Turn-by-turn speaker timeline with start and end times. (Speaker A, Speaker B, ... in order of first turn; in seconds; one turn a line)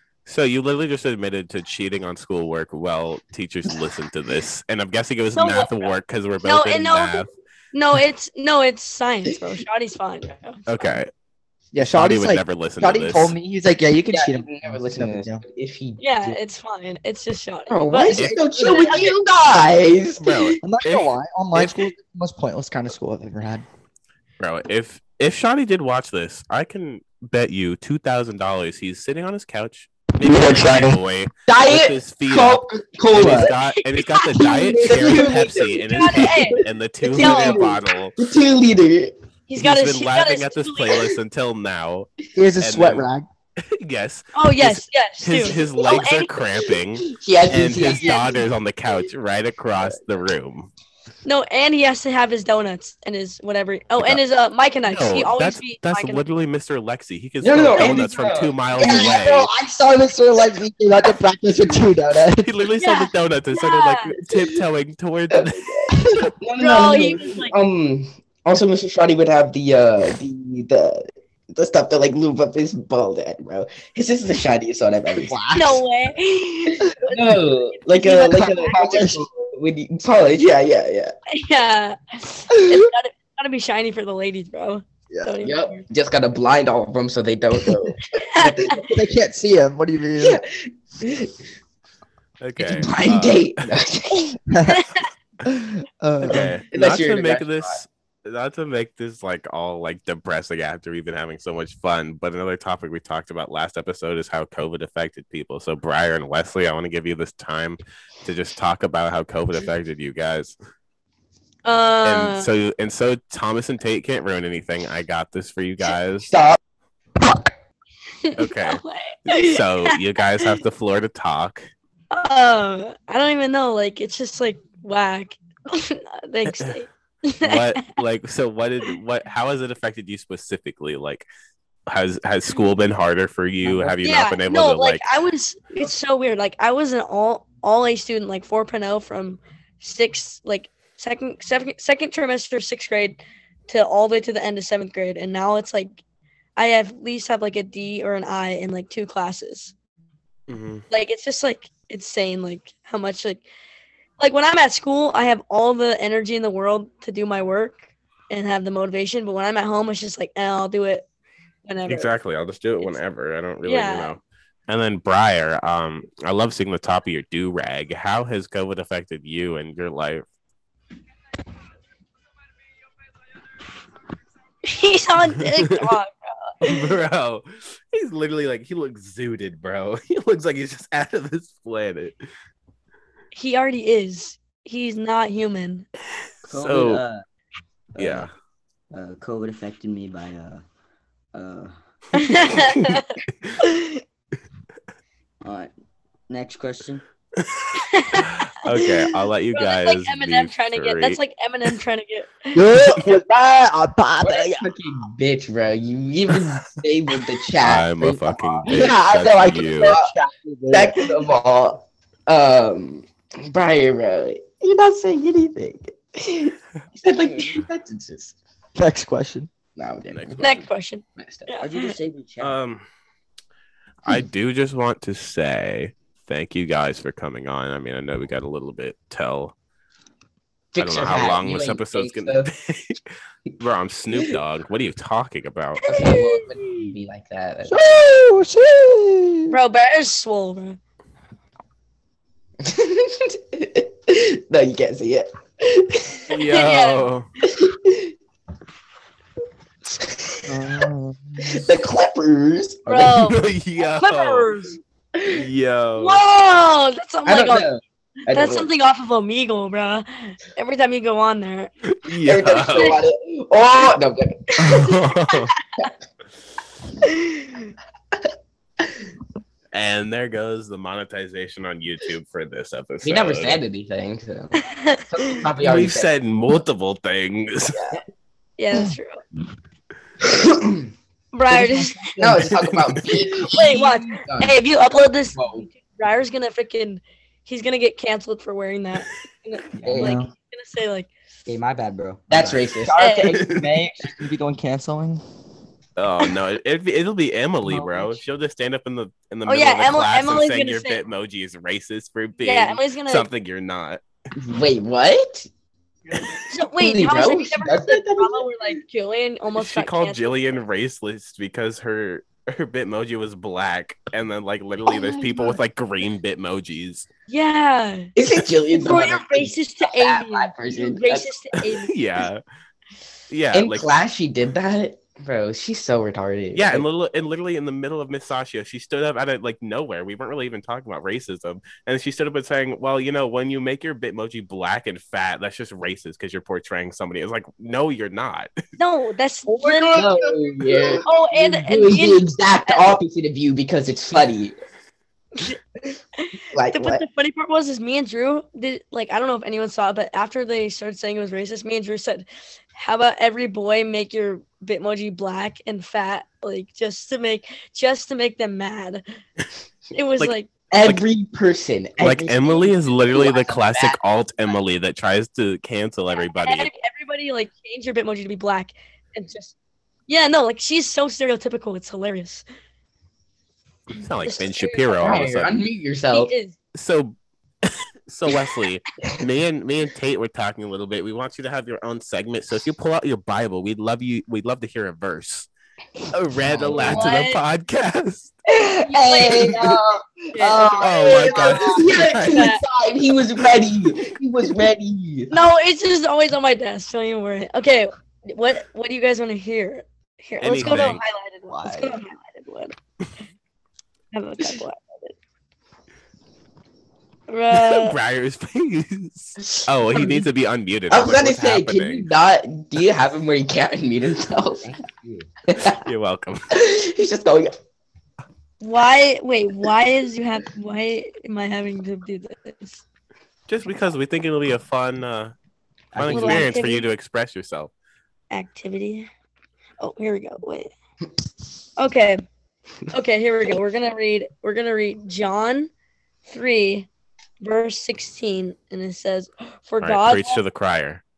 Speaker A: 0.2-7.3
Speaker B: 5.3-5.9
Speaker B: 6.4-10.6
Speaker A: 10.7-11.1
Speaker C: 11.7-15.4
Speaker A: 11.8-13.3
Speaker D: 14.1-16.4
Speaker B: 16.0-19.1
Speaker D: 17.7-20.4
Speaker C: 18.2-19.0
Speaker A: 20.2-21.9
Speaker C: 20.6-23.6
Speaker A: 24.4-38.2
Speaker C: 30.2-31.0
Speaker D: 31.5-33.5
Speaker B: 33.4-35.2
Speaker D: 34.7-39.1
Speaker B: 35.9-36.6
Speaker B: 37.1-37.7
Speaker B: 39.5-41.1
Speaker A: 39.5-43.1
Speaker C: 42.3-43.2
Speaker A: 43.6-50.7
Speaker B: 44.3-46.3
Speaker D: 47.0-48.4
Speaker B: 47.8-48.3
Speaker B: 51.2-56.2
Speaker A: 54.9-59.5
Speaker D: 57.4-59.2
Speaker B: 57.8-58.0
Speaker C: 58.8-62.5
Speaker A: 62.4-66.3
Speaker B: 62.8-64.1
Speaker D: 65.3-75.4
Speaker B: 66.6-67.5
Speaker C: 75.1-75.8
Speaker B: 75.5-79.1
Speaker D: 77.1-81.1
Speaker C: 78.0-79.3
Speaker B: 81.3-85.8
Speaker D: 85.4-89.1
Speaker C: 87.7-87.9
Speaker B: 88.1-88.8
Speaker C: 88.8-90.4
Speaker D: 90.2-91.3
Speaker A: 92.4-93.7
Speaker D: 92.6-94.4
Speaker C: 94.5-94.8
Speaker B: 94.7-95.0
Speaker C: 95.4-96.5
Speaker A: 96.2-110.5
Speaker D: 96.3-97.8
Speaker B: 111.6-112.5
Speaker A: 112.0-116.3
Speaker D: 116.2-116.6
Speaker B: 118.2-120.5
Speaker A: 118.3-121.7
Speaker B: 122.1-127.9
Speaker A: 126.5-126.7
Speaker A: 127.4-131.3
Speaker A: 131.9-135.0
Speaker C: 133.7-133.9
Speaker B: 134.0-146.0
Speaker B: 146.6-149.7
Speaker A: 150.5-150.8
Speaker B: 150.9-153.4
Speaker B: 154.2-161.1
Speaker B: 161.6-162.1
Speaker A: 161.9-170.2
Speaker B: 163.6-164.1
Speaker B: 174.6-176.9
Speaker A: 175.2-175.9
Speaker A: 176.6-182.1
Speaker B: 183.3-185.9
Speaker E: 186.4-187.2
Speaker A: 186.4-187.0
Speaker E: 187.9-188.3
Speaker A: 188.0-188.3
Speaker E: 188.9-190.6
Speaker E: 191.3-191.7
Speaker B: 192.1-194.0
Speaker E: 195.4-195.7
Speaker E: 196.3-197.0
Speaker A: 197.4-197.7
Speaker B: 197.7-198.9
Speaker A: 198.2-201.2
Speaker B: 199.5-202.6
Speaker C: 202.5-205.1
Speaker D: 204.2-210.1
Speaker A: 207.6-210.0
Speaker C: 208.7-211.2
Speaker D: 210.7-218.3
Speaker C: 218.8-219.5
Speaker D: 219.8-220.6
Speaker A: 220.1-220.6
Speaker B: 220.4-221.9
Speaker D: 221.2-221.5
Speaker E: 221.6-222.6
Speaker A: 222.4-222.8
Speaker A: 224.1-229.5
Speaker D: 230.7-232.5
Speaker A: 230.8-233.0
Speaker A: 233.6-235.8
Speaker B: 235.8-236.6
Speaker D: 235.9-237.8
Speaker C: 237.7-239.6
Speaker B: 239.5-240.8
Speaker D: 242.6-246.3
Speaker A: 246.3-247.3
Speaker B: 246.5-247.1
Speaker D: 247.4-248.1
Speaker D: 249.9-250.8
Speaker C: 250.5-251.6
Speaker D: 251.4-253.1
Speaker B: 252.8-254.8
Speaker A: 252.9-254.5
Speaker D: 255.1-255.4
Speaker A: 255.3-256.2
Speaker B: 256.0-257.7
Speaker D: 257.2-258.7
Speaker B: 258.3-261.7
Speaker A: 261.9-263.0
Speaker D: 262.2-264.9
Speaker B: 262.7-263.0
Speaker B: 264.5-265.9
Speaker A: 264.6-265.5
Speaker B: 267.0-267.7
Speaker A: 269.7-273.6
Speaker D: 273.0-276.1
Speaker B: 274.6-275.4
Speaker A: 275.6-277.8
Speaker D: 277.7-278.0
Speaker B: 278.6-279.2
Speaker D: 280.2-280.9
Speaker B: 281.3-282.2
Speaker C: 281.5-282.6
Speaker D: 282.2-284.5
Speaker B: 283.3-291.1
Speaker D: 285.3-285.6
Speaker C: 289.8-290.3
Speaker E: 289.8-290.2
Speaker E: 291.4-292.7
Speaker D: 292.3-293.2
Speaker C: 292.8-295.2
Speaker B: 293.0-293.4
Speaker A: 296.0-304.0
Speaker C: 297.6-298.2
Speaker B: 299.4-301.0
Speaker B: 302.4-303.3
Speaker D: 304.4-305.5
Speaker D: 306.2-308.5
Speaker B: 306.5-310.6
Speaker A: 309.5-317.1
Speaker B: 315.2-315.5
Speaker B: 317.3-318.1
Speaker D: 318.1-321.3
Speaker B: 318.7-322.0
Speaker A: 321.8-322.4
Speaker A: 323.3-323.9
Speaker D: 323.5-326.9
Speaker A: 326.5-338.5
Speaker B: 338.8-340.3
Speaker D: 339.5-344.5
Speaker B: 341.0-343.0
Speaker B: 345.3-359.0
Speaker D: 346.5-347.0
Speaker B: 359.9-360.5
Speaker A: 360.2-361.0
Speaker D: 360.7-364.0
Speaker A: 362.0-366.7
Speaker B: 366.3-369.5
Speaker B: 370.1-372.4
Speaker A: 373.9-375.5
Speaker B: 374.2-375.5
Speaker D: 375.0-376.3
Speaker B: 376.1-376.5
Speaker A: 376.7-385.5
Speaker A: 386.1-388.4
Speaker D: 386.5-387.1
Speaker B: 386.8-387.4
Speaker B: 388.5-389.8
Speaker D: 388.5-395.3
Speaker B: 390.3-392.6
Speaker C: 390.4-391.8
Speaker A: 390.8-392.5
Speaker B: 395.3-402.7
Speaker A: 400.4-401.0
Speaker C: 400.6-402.0
Speaker B: 404.1-405.1
Speaker B: 407.3-408.0
Speaker A: 407.5-412.1
Speaker D: 409.5-410.3
Speaker D: 410.9-414.7
Speaker E: 414.6-415.3
Speaker D: 415.5-415.8
Speaker A: 415.7-416.4
Speaker D: 416.5-417.5
Speaker B: 418.6-422.8
Speaker A: 423.5-425.3
Speaker E: 425.9-426.4
Speaker A: 425.9-427.7
Speaker B: 426.1-426.9
Speaker B: 428.3-429.1
Speaker B: 429.8-430.7
Speaker B: 431.8-432.2
Speaker B: 432.9-435.7
Speaker B: 436.3-436.9
Speaker B: 437.4-440.4
Speaker A: 439.8-441.0